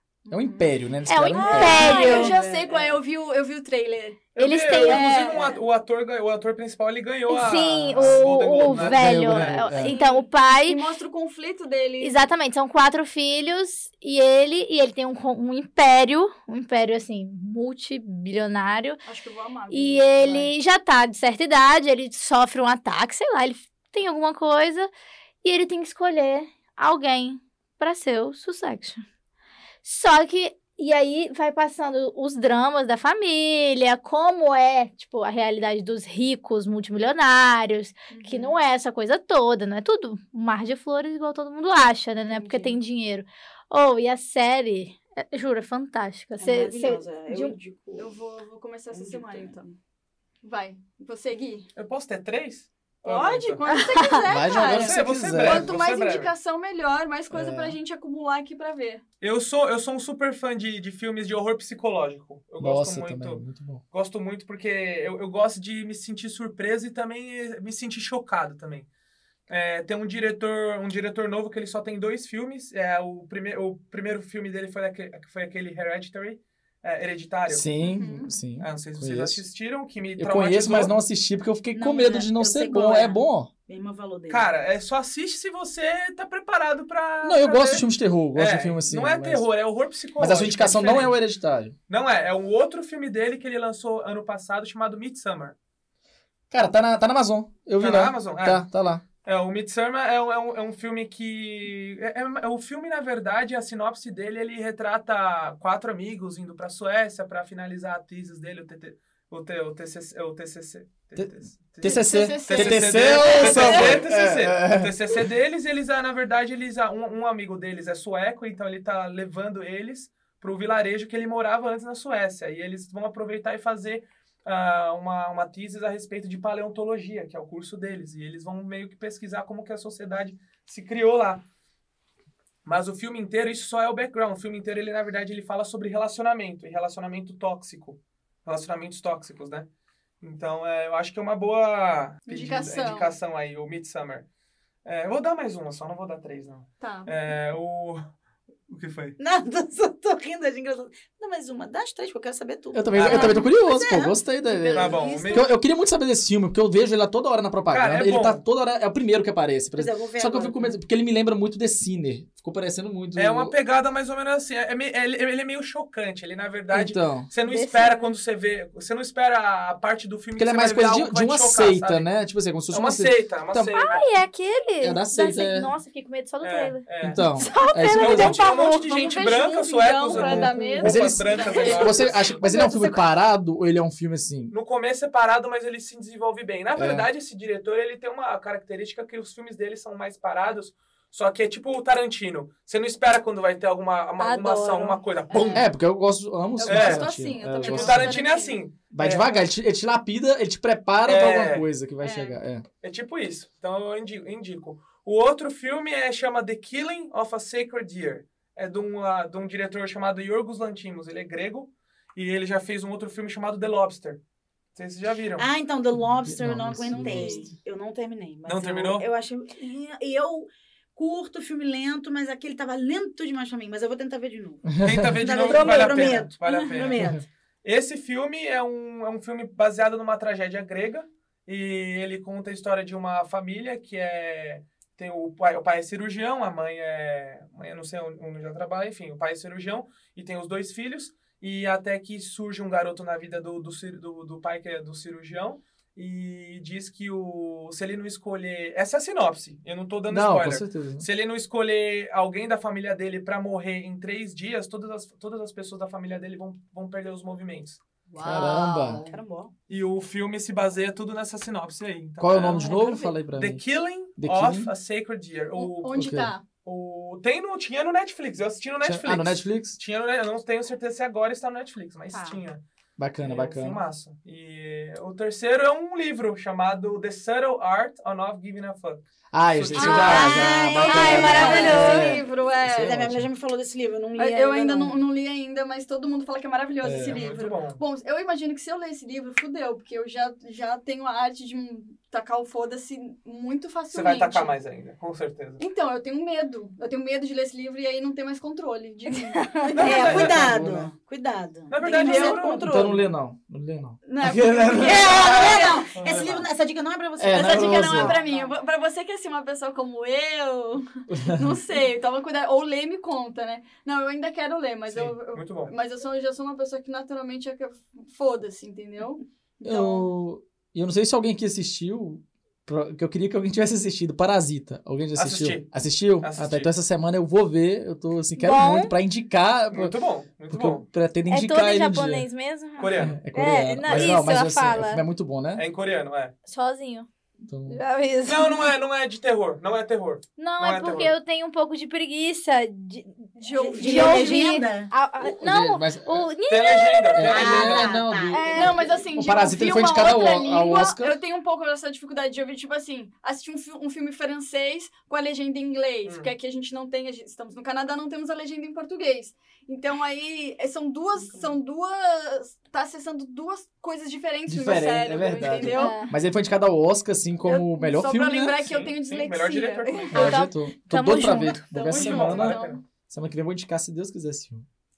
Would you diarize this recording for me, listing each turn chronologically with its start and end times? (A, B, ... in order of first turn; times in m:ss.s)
0:00.3-0:00.7 A
0:00.3-0:02.1 B
0:01.1-0:02.4 C
0:01.4-0:04.2 A
0:01.5-0:02.9 D
0:04.4-0:09.7 E
0:04.4-0:05.4 C
0:04.8-0:05.5 A
0:07.3-0:10.8 C
0:08.0-0:10.0 B
0:09.8-0:12.2 A
0:12.0-0:19.0 C
0:19.0-0:20.5 A
0:19.7-0:24.9 C
0:25.4-0:29.0 C
0:29.8-0:47.6 C
0:38.1-0:38.6 A
0:42.2-0:42.8 A
0:46.4-0:48.1 D
0:48.0-0:49.8 A
0:48.9-0:49.6 D
0:50.4-0:51.7 A
0:51.8-0:53.6 E
0:53.0-0:59.0 A
0:53.6-0:54.3 C
0:54.3-0:55.7 B
0:54.6-0:56.3 E
0:57.3-0:57.8 B
0:59.2-1:08.9 E
1:02.6-1:03.8 B
1:09.5-1:17.7 E
1:17.5-1:19.4 B
1:17.8-1:18.3 A
1:18.6-1:21.0 E
1:20.2-1:23.5 B
1:21.7-1:24.5 D
1:24.3-1:31.2 E
1:27.2-1:29.5 B
1:30.2-1:31.8 B
1:31.9-1:35.6 E
1:36.5-1:39.0 B
1:37.8-1:38.7 E
1:39.2-2:11.4 E
1:51.2-1:55.3 B
1:51.8-1:54.0 A
2:12.6-2:19.7 E
2:20.2-2:24.2 E
2:22.3-2:23.2 A
2:24.8-2:28.0 E
2:26.8-2:27.2 A
2:28.7-2:29.2 E
2:29.2-2:34.2 D
2:32.7-2:43.6 B
2:33.0-2:33.4 E
2:34.5-2:35.5 A
2:34.7-2:35.5 E
2:37.7-2:38.4 E
2:39.8-2:40.8 D
2:43.2-2:52.1 E
2:46.7-2:47.3 B
2:47.4-2:48.1 C
2:50.4-2:53.8 B
2:52.7-2:54.1 E
2:53.7-2:58.4 C
2:54.8-2:55.7 B
2:56.4-2:57.2 E
2:57.0-2:58.4 B
2:57.5-3:02.1 A
2:57.9-3:02.4 E
3:00.1-3:04.5 B
3:01.4-3:03.0 C
3:04.5-3:15.7 E
3:06.8-3:07.1 B
3:14.2-3:15.6 C
3:15.3-3:15.7 A
3:15.5-3:18.2 B
3:16.6-3:18.6 A
3:16.7-3:17.1 E
3:17.6-3:19.4 E
3:18.9-3:22.7 B
3:21.0-3:21.7 E
3:22.0-3:22.4 A
3:22.8-3:34.2 E
3:34.8-3:35.5 E
3:35.4-3:47.3 D
3:36.0-3:37.5 B
3:37.1-3:37.4 A
3:38.5-3:39.1 E
3:44.8-3:45.2 B
3:44.8-3:47.0 E
3:45.7-3:46.7 A
3:47.6-4:17.8 E
4:10.1-4:11.1 B
4:18.1-4:19.2 A
4:18.2-4:19.1 C
4:18.2-4:19.0 B
4:19.1-4:19.5 D
4:19.7-4:26.1 E
4:22.2-4:23.6 B
4:22.5-4:23.1 A
4:24.2-4:24.7 B
4:25.6-4:26.4 A
4:25.9-4:26.3 B
4:26.6-4:32.6 E
4:28.8-4:29.8 B
4:32.1-4:32.4 A
4:33.0-4:33.8 B
4:33.2-4:40.4 E
4:39.3-4:43.3 B
4:39.8-4:42.0 D
4:40.0-4:42.2 C
4:40.8-4:43.0 A
4:42.7-4:45.0 D
4:44.2-4:54.5 A
4:46.8-4:47.2 B
4:47.1-4:47.8 E
4:53.9-4:55.6 E
4:55.6-4:59.4 A
4:59.1-4:59.9 C
4:59.7-5:03.1 D
4:59.8-5:00.4 E
5:00.0-5:00.9 B
5:01.7-5:02.7 E
5:01.8-5:02.4 A
5:02.6-5:05.2 B
5:04.1-5:05.9 A
5:04.7-5:08.6 D
5:05.0-5:06.5 E
5:07.2-5:08.2 B
5:07.3-5:20.1 A
5:11.1-5:11.6 B
5:14.9-5:15.7 E
5:19.6-5:29.9 B
5:25.2-5:26.7 E
5:28.4-5:28.9 C
5:29.7-5:30.9 E
5:30.5-5:32.3 B
5:31.3-5:35.0 C
5:32.8-5:33.2 E
5:33.0-5:35.6 B
5:35.6-5:36.3 E
5:36.5-5:37.1 C
5:37.4-5:37.8 B
5:37.7-5:38.7 C
5:38.2-5:41.1 E
5:40.4-5:47.3 C
5:43.4-5:44.6 A
5:43.6-5:44.9 D
5:45.2-5:46.3 B
5:46.5-5:48.0 E
5:47.1-5:51.2 B
5:47.2-5:48.6 D
5:48.3-5:49.0 C
5:48.4-6:06.0 A
5:56.0-5:56.3 E
6:01.3-6:01.6 D
6:04.5-6:08.7 B
6:05.7-6:06.1 C
6:07.5-6:10.4 A
6:08.7-6:10.4 E
6:10.1-6:11.9 C
6:10.2-6:14.7 B
6:11.7-6:12.8 A
6:11.9-6:12.8 E